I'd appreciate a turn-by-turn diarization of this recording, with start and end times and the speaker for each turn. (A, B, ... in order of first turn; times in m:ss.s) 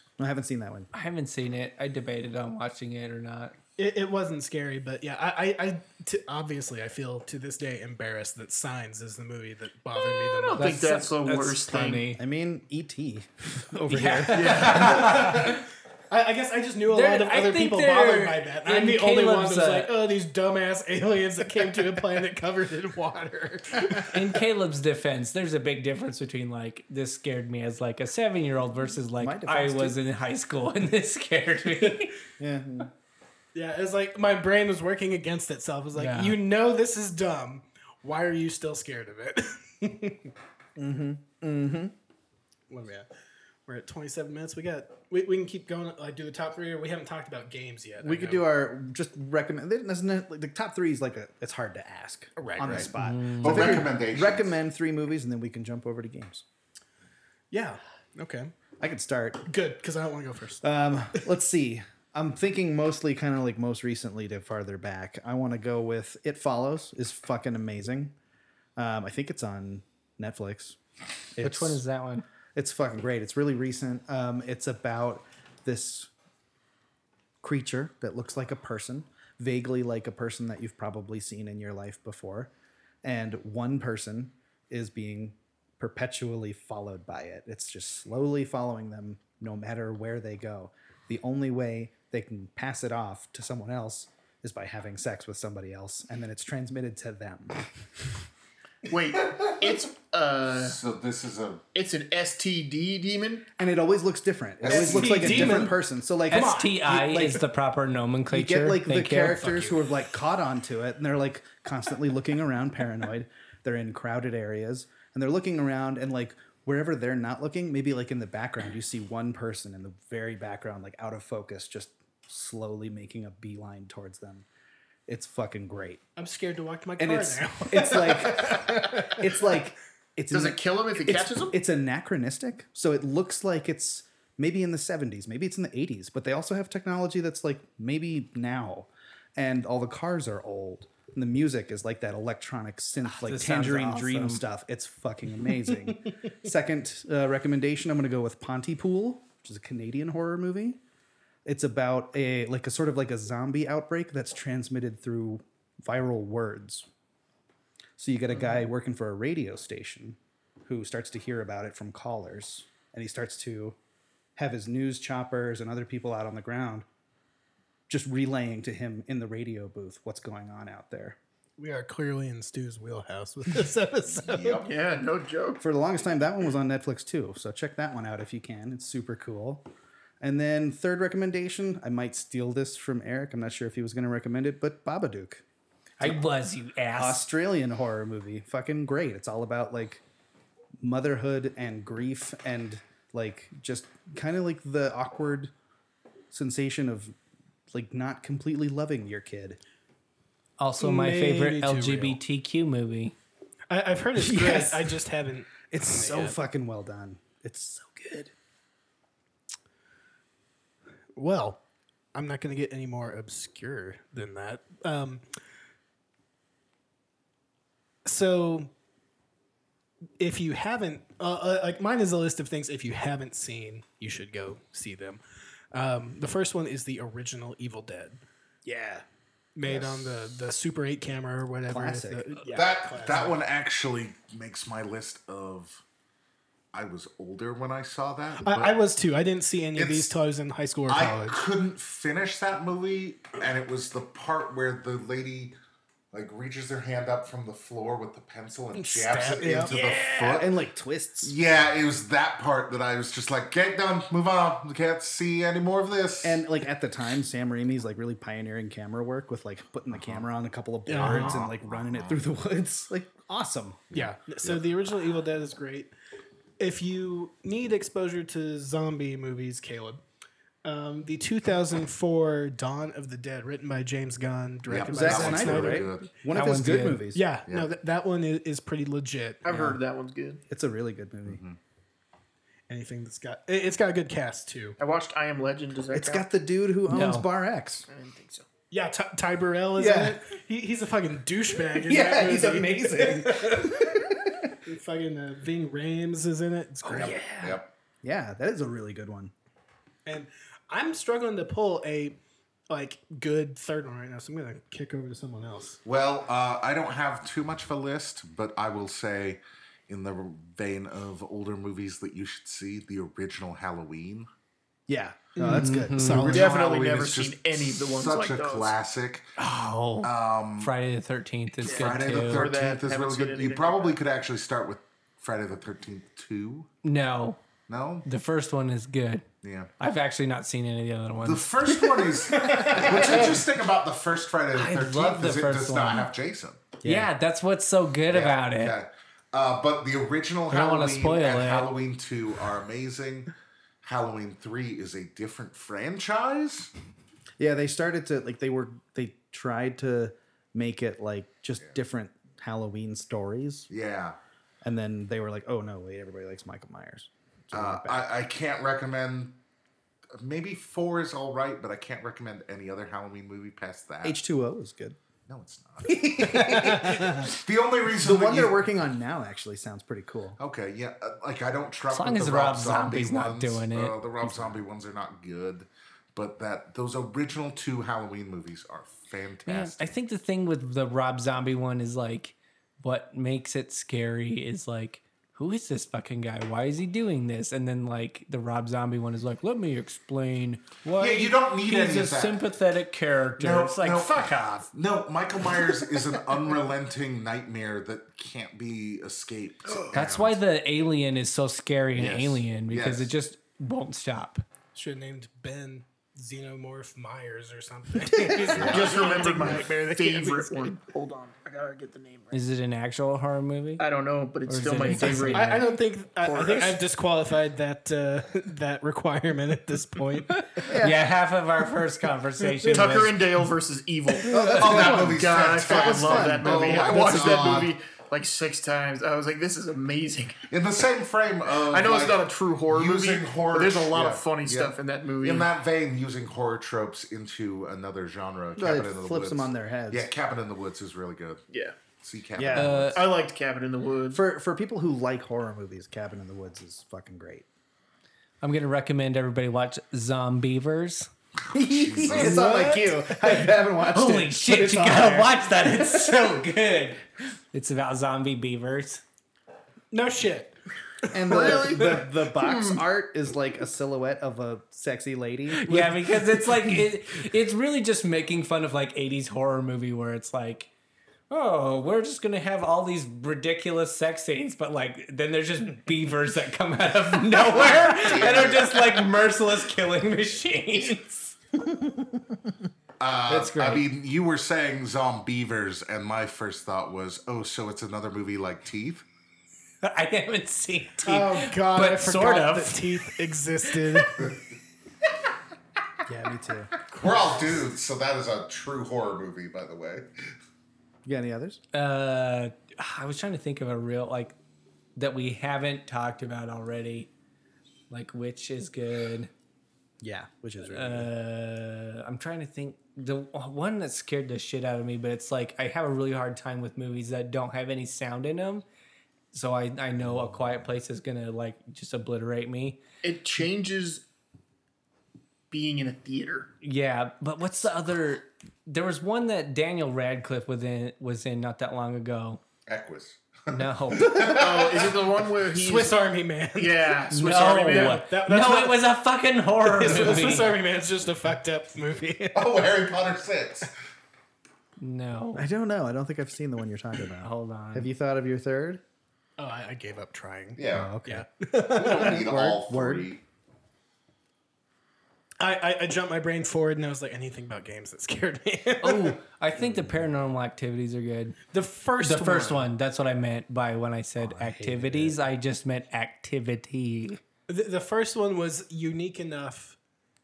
0:00.2-0:00.9 A
0:00.9-0:03.6 B
0:03.8-0:10.7 C
0:10.0-0:12.1 D
0:10.6-0:12.2 B
0:12.2-0:15.0 A
0:13.9-0:15.7 B
0:14.3-0:15.2 D
0:14.4-0:15.6 C
0:16.1-0:24.4 C
0:16.9-0:19.9 B
0:24.0-0:32.2 B
0:29.2-0:30.0 A
0:32.4-0:32.9 A
0:33.5-0:40.3 C
0:36.0-0:36.4 B
0:40.8-0:41.9 A
0:42.7-0:43.1 C
0:43.7-0:48.4 C
0:48.0-0:56.4 A
0:52.4-0:52.9 C
0:53.0-0:53.8 B
0:53.4-0:54.6 E
0:57.5-0:58.5 C
0:58.8-0:59.5 A
0:59.5-1:00.6 C
1:00.6-1:08.1 A
1:08.8-1:10.8 A
1:11.4-1:11.8 A
1:11.4-1:12.3 B
1:12.5-1:16.1 A
1:17.4-1:22.5 A
1:23.0-1:37.6 A
1:38.9-1:40.8 D
1:40.6-1:41.6 E
1:41.7-1:43.5 D
1:43.6-1:47.4 A
1:44.6-1:45.7 E
1:44.7-1:45.8 C
1:46.3-1:49.6 B
1:46.3-1:46.7 C
1:48.3-2:04.5 A
2:05.1-2:06.0 A
2:06.2-2:09.2 C
2:07.0-2:30.8 A
2:10.3-2:11.6 D
2:23.0-2:24.4 B
2:31.4-2:36.9 A
2:38.0-2:43.8 A
2:44.4-2:46.9 A
2:47.9-2:51.2 A
2:51.6-2:54.6 C
2:54.1-2:54.7 E
2:54.6-2:55.6 D
2:55.6-2:59.7 A
3:00.2-3:05.4 A
3:06.0-3:07.3 B
3:07.0-3:10.0 A
3:10.8-3:15.5 A
3:16.3-3:17.2 A
3:17.7-3:19.6 A
3:20.6-3:23.2 B
3:20.8-3:22.2 C
3:23.7-3:26.4 C
3:24.2-3:25.0 A
3:25.7-3:28.3 A
3:31.2-3:31.6 C
3:32.1-3:35.2 C
3:38.0-3:38.7 C
3:40.2-3:45.2 C
3:45.7-3:48.2 C
3:48.6-3:49.0 A
3:49.6-3:53.4 C
3:49.7-3:50.0 A
3:51.7-3:52.3 A
3:52.5-3:55.8 E
3:56.7-3:58.8 E
3:58.4-4:01.4 C
3:59.8-4:00.2 E
4:00.9-4:05.5 E
4:06.1-4:10.5 E
4:08.7-4:10.4 C
4:09.4-4:11.4 A
4:11.2-4:16.4 E
4:16.2-4:23.9 A
4:20.0-4:20.2 E
4:20.9-4:21.4 C
4:20.9-4:22.2 E
4:23.9-4:24.6 E
4:23.9-4:25.9 C
4:26.6-4:30.0 C
4:30.6-4:35.9 C
4:34.7-4:36.1 E
4:34.9-4:37.3 A
4:36.3-4:37.0 B
4:37.1-4:39.4 C
4:37.5-4:37.7 E
4:39.4-4:40.4 D
4:39.5-4:39.8 A
4:40.5-4:41.4 A
4:41.3-4:41.6 E
4:42.7-4:44.8 C
4:44.8-4:46.3 D
4:45.9-4:47.9 A
4:46.9-4:47.3 B
4:47.9-4:48.5 D
4:48.7-4:54.0 C
4:49.8-4:50.2 A
4:51.8-4:54.5 A
4:54.6-4:57.2 C
4:56.8-4:57.7 E
4:56.9-4:59.3 A
5:00.0-5:02.2 C
5:02.7-5:05.8 C
5:05.8-5:14.3 E
5:14.9-5:16.3 A
5:15.4-5:16.5 C
5:15.4-5:16.4 B
5:16.2-5:19.3 E
5:16.3-5:18.8 D
5:19.4-5:22.5 B
5:20.0-5:20.7 E
5:21.6-5:26.7 E
5:21.6-5:24.0 D
5:26.8-5:27.4 B
5:27.7-5:28.1 E
5:28.0-5:29.3 B
5:29.4-5:29.7 E
5:29.8-5:33.3 B
5:31.2-5:36.7 E
5:34.5-5:36.1 B
5:36.8-5:37.1 A
5:36.8-5:38.8 B
5:38.1-5:43.3 E
5:40.5-5:41.7 B
5:43.8-5:46.7 E
5:47.4-5:53.7 A
5:53.7-5:54.2 E
5:54.6-5:58.1 A
5:57.5-5:59.4 E
6:00.2-6:04.2 E
6:04.0-6:05.0 A
6:05.3-6:08.6 E
6:05.8-6:07.3 A
6:07.9-6:10.4 A
6:10.4-6:19.9 E
6:11.9-6:14.0 B
6:14.2-6:14.6 A
6:19.5-6:34.7 B
6:31.0-6:32.4 E
6:33.4-6:40.4 E
6:39.9-6:44.4 B
6:42.0-6:43.1 E
6:44.7-6:50.8 C
6:48.1-6:48.5 A
6:48.5-6:52.4 D
6:48.6-6:49.1 E
6:52.3-6:53.8 B
6:53.8-6:56.8 D
6:54.5-6:55.7 B
6:55.0-7:00.7 C
7:00.4-7:03.2 B
7:00.6-7:01.0 A
7:02.5-7:02.9 C
7:02.7-7:10.5 D
7:04.3-7:07.7 A
7:04.4-7:07.7 E
7:10.5-7:21.4 E
7:11.7-7:15.5 D
7:18.6-7:20.1 A
7:21.5-7:21.8 D
7:22.0-7:23.0 E
7:22.4-7:23.0 A
7:22.5-7:23.0 B
7:22.9-7:24.2 D
7:24.1-7:27.5 A
7:28.4-7:31.1 B
7:31.5-7:32.4 E
7:31.5-7:36.2 A
7:32.2-7:33.0 C
7:33.4-7:39.0 B
7:39.9-7:40.6 C
7:41.1-7:46.8 A
7:41.3-7:42.8 D
7:41.6-7:41.9 C
7:45.5-7:50.7 B
7:51.3-8:01.4 B
7:57.4-7:59.1 E
8:01.6-8:02.3 A
8:03.0-8:09.0 E
8:03.3-8:03.9 B
8:09.8-8:13.1 B
8:11.0-8:14.3 C
8:13.7-8:14.2 B
8:16.1-8:16.7 A
8:16.9-8:20.3 E
8:21.0-8:21.6 A
8:21.7-8:24.4 B
8:25.0-8:27.1 B
8:27.9-8:29.3 B
8:30.0-8:31.1 A
8:30.6-8:38.6 B
8:39.3-8:42.8 B
8:40.0-8:40.6 A
8:43.0-8:44.0 D
8:45.5-8:46.5 D
8:46.6-8:52.4 B
8:52.7-8:55.0 E
8:53.5-8:54.2 B
8:54.1-8:56.0 D
8:55.6-8:58.9 C
8:56.6-8:58.0 D
8:57.1-9:00.6 B
8:59.6-9:02.6 C
9:02.4-9:03.7 E
9:04.8-9:05.5 B
9:05.4-9:08.8 A
9:07.2-9:07.9 B
9:09.4-9:12.4 C
9:10.6-9:11.0 E
9:10.7-9:11.3 A
9:11.6-9:13.2 E
9:11.9-9:13.1 A
9:15.4-9:19.2 C
9:18.8-9:21.4 B
9:19.6-9:20.1 A
9:21.5-9:22.7 C
9:22.0-9:27.2 B
9:24.2-9:25.2 A
9:27.5-9:29.8 C